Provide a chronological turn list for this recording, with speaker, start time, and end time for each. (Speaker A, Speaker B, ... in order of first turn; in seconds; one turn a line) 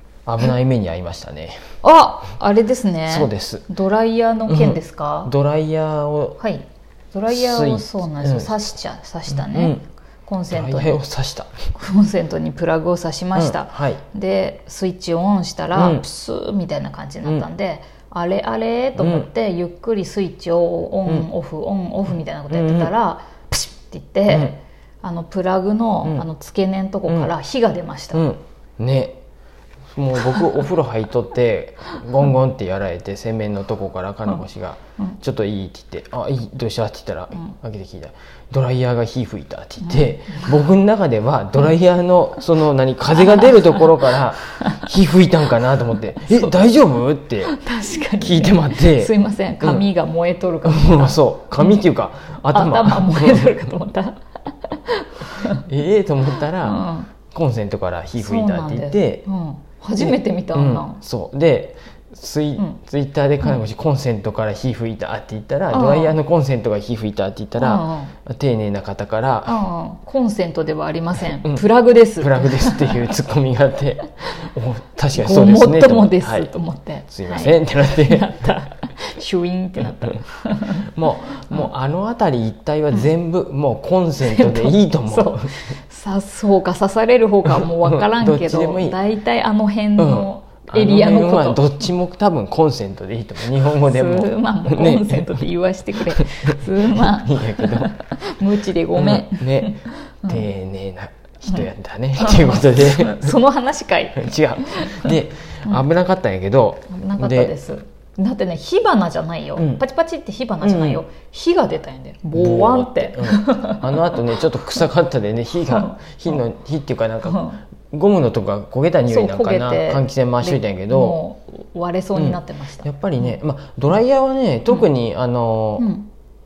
Speaker A: 0.3-1.6
Speaker B: 1.8-5.3
Speaker A: 3.1-3.7
Speaker A: 4.5-6.4
Speaker B: 6.4-11.0
Speaker A: 7.3-8.7
Speaker A: 9.3-9.8
Speaker A: 10.5-11.5
Speaker B: 11.7-28.2
Speaker A: 13.3-14.0
Speaker A: 15.7-16.1
Speaker A: 19.0-19.3
Speaker A: 22.5-22.9
Speaker A: 24.3-24.6
Speaker A: 27.1-27.3
Speaker A: 28.1-29.2
Speaker A: 29.9-47.5
Speaker B: 39.9-40.6
Speaker B: 43.2-44.9
Speaker B: 46.2-46.5
Speaker B: 47.5-51.9
Speaker A: 48.2-49.9
Speaker A: 50.6-53.6
Speaker B: 52.4-55.6
Speaker A: 55.5-59.3
Speaker B: 56.6-57.1
Speaker B: 58.2-61.0
Speaker A: 60.0-69.6
Speaker B: 65.7-66.2
Speaker B: 67.6-68.1
Speaker B: 69.5-73.1
Speaker A: 71.4-76.5
Speaker B: 75.1-81.7
Speaker A: 77.1-78.4
Speaker A: 80.8-85.5
Speaker B: 84.2-91.8
Speaker A: 87.5-89.0
Speaker A: 90.0-95.4
Speaker B: 93.8-100.4
Speaker A: 95.9-97.9
Speaker A: 99.0-103.4
Speaker B: 102.2-105.9
Speaker A: 104.1-107.5
Speaker B: 106.9-114.8
Speaker A: 109.6-109.8
Speaker A: 110.6-111.0
Speaker A: 112.3-121.2
Speaker B: 115.7-116.4
Speaker B: 117.2-117.6
Speaker B: 119.1-123.3
Speaker A: 122.1-125.9
Speaker B: 125.8-126.1